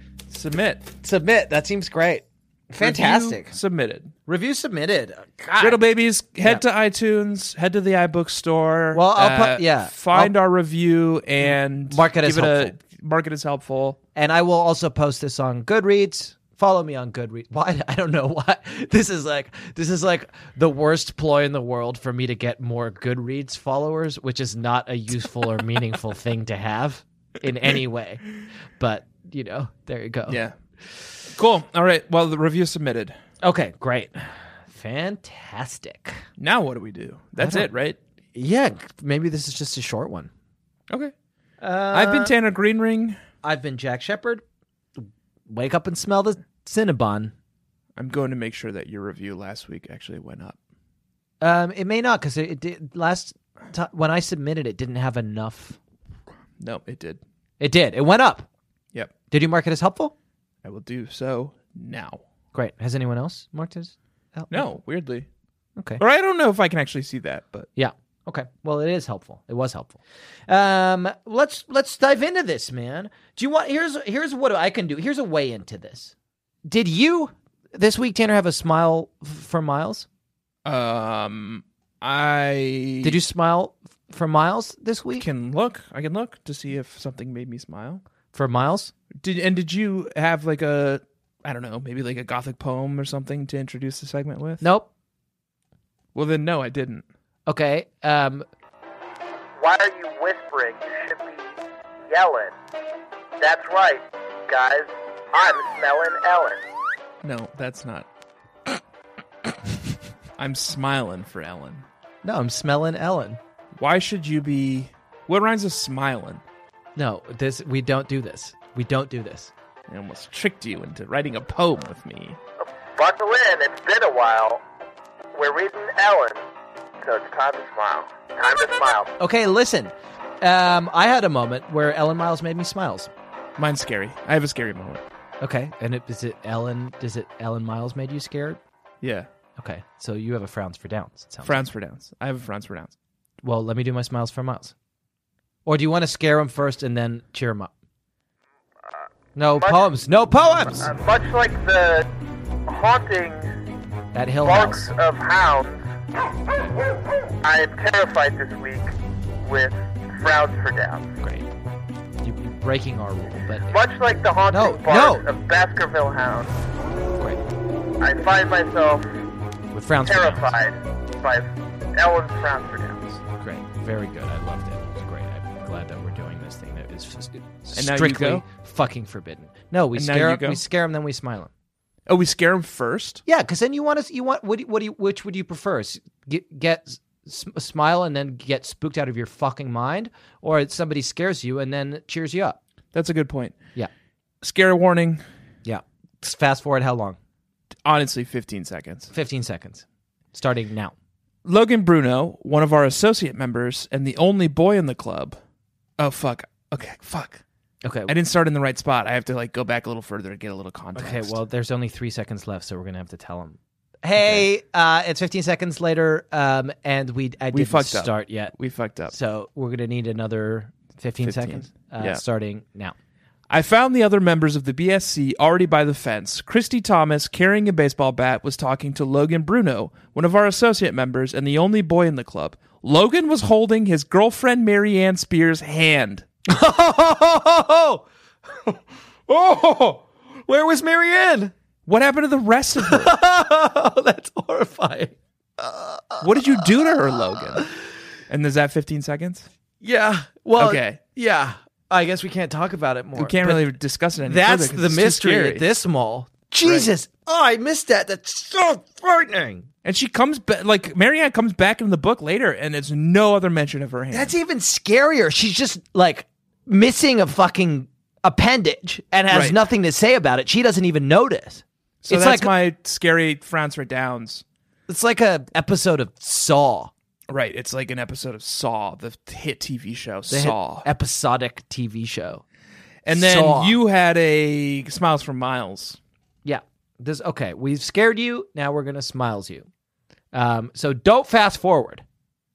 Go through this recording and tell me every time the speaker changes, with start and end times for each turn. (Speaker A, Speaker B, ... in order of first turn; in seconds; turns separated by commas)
Speaker A: 0.3-0.9, Speaker B: 1.0-3.5, Speaker A: 2.8-4.1, Speaker B: 4.3-5.8, Speaker A: 5.6-14.0, Speaker B: 8.9-10.3, Speaker B: 11.9-12.8, Speaker B: 14.1-30.4, Speaker A: 30.3-30.5, Speaker A: 31.3-33.2, Speaker B: 33.4-36.2, Speaker A: 36.4-38.0, Speaker B: 37.4-37.7, Speaker B: 38.3-40.3, Speaker B: 41.6-42.3, Speaker A: 41.9-43.2, Speaker B: 43.4-44.4, Speaker B: 45.0-47.3, Speaker A: 48.0-50.6, Speaker B: 51.4-55.8, Speaker A: 56.6-57.2, Speaker B: 57.6-58.5, Speaker B: 59.3-60.1, Speaker A: 60.6-62.2, Speaker B: 62.5-64.7, Speaker A: 64.5-65.3, Speaker B: 65.8-66.0, Speaker A: 66.0-67.7, Speaker B: 67.7-76.1, Speaker B: 76.7-80.1, Speaker A: 80.6-83.2, Speaker B: 83.0-85.2, Speaker A: 85.2-88.0, Speaker B: 88.3-88.9, Speaker A: 89.2-94.7, Speaker B: 94.6-94.9, Speaker A: 96.1-97.0, Speaker B: 97.5-98.5, Speaker C: 99.6-101.6, Speaker C: 102.1-102.5, Speaker C: 103.4-106.6, Speaker A: 107.2-108.1, Speaker A: 110.4-111.8, Speaker B: 112.2-113.4, Speaker A: 113.8-116.4, Speaker B: 117.0-119.5, Speaker A: 119.9-122.4, Speaker C: 122.6-124.6, Speaker C: 125.3-126.4, Speaker C: 127.0-129.1, Speaker B: 129.2-133.1, Speaker A: 133.6-135.0, Speaker B: 135.4-138.6, Speaker A: 139.0-139.3, Speaker B: 139.6-141.6, Speaker A: 141.4-142.9, Speaker B: 143.4-144.7, Speaker B: 145.6-147.7, Speaker B: 149.3-150.9, Speaker C: 149.6-149.9, Speaker C: 150.8-152.1, Speaker C: 152.7-153.5, Speaker B: 154.1-154.9, Speaker C: 154.4-155.9, Speaker C: 157.4-161.1, Speaker B: 161.2-161.5, Speaker B: 162.2-163.8, Speaker C: 163.7-166.5, Speaker B: 164.5-165.2, Speaker C: 168.0-169.1, Speaker B: 169.7-170.6, Speaker C: 170.0-173.2, Speaker B: 173.4-181.5, Speaker A: 177.7-178.4, Speaker A: 179.9-180.6, Speaker A: 182.1-183.2, Speaker B: 183.2-192.6, Speaker A: 192.9-193.6, Speaker A: 194.4-195.2, Speaker B: 195.6-197.2, Speaker A: 197.8-199.1, Speaker B: 199.1-200.9, Speaker A: 201.4-205.4, Speaker A: 206.0-207.4, Speaker B: 207.8-208.1, Speaker A: 208.1-211.4, Speaker B: 210.9-218.5, Speaker A: 214.2-214.5, Speaker A: 217.5-219.1, Speaker B: 219.1-222.9, Speaker A: 221.2-222.2, Speaker A: 223.5-236.2, Speaker B: 236.5-241.5, Speaker A: 241.8-243.1, Speaker B: 242.8-246.6, Speaker A: 246.2-247.7, Speaker A: 248.3-249.5, Speaker B: 249.8-253.7, Speaker A: 250.6-251.0, Speaker A: 253.2-255.7, Speaker B: 254.2-259.7, Speaker A: 256.6-256.9, Speaker A: 259.8-264.3, Speaker B: 264.1-272.5, Speaker A: 269.3-269.6, Speaker A: 272.0-274.4, Speaker B: 274.9-276.9, Speaker A: 277.3-280.9, Speaker B: 280.3-282.4, Speaker A: 283.0-286.0, Speaker B: 283.1-283.8, Speaker B: 286.4-289.7, Speaker B: 290.3-292.0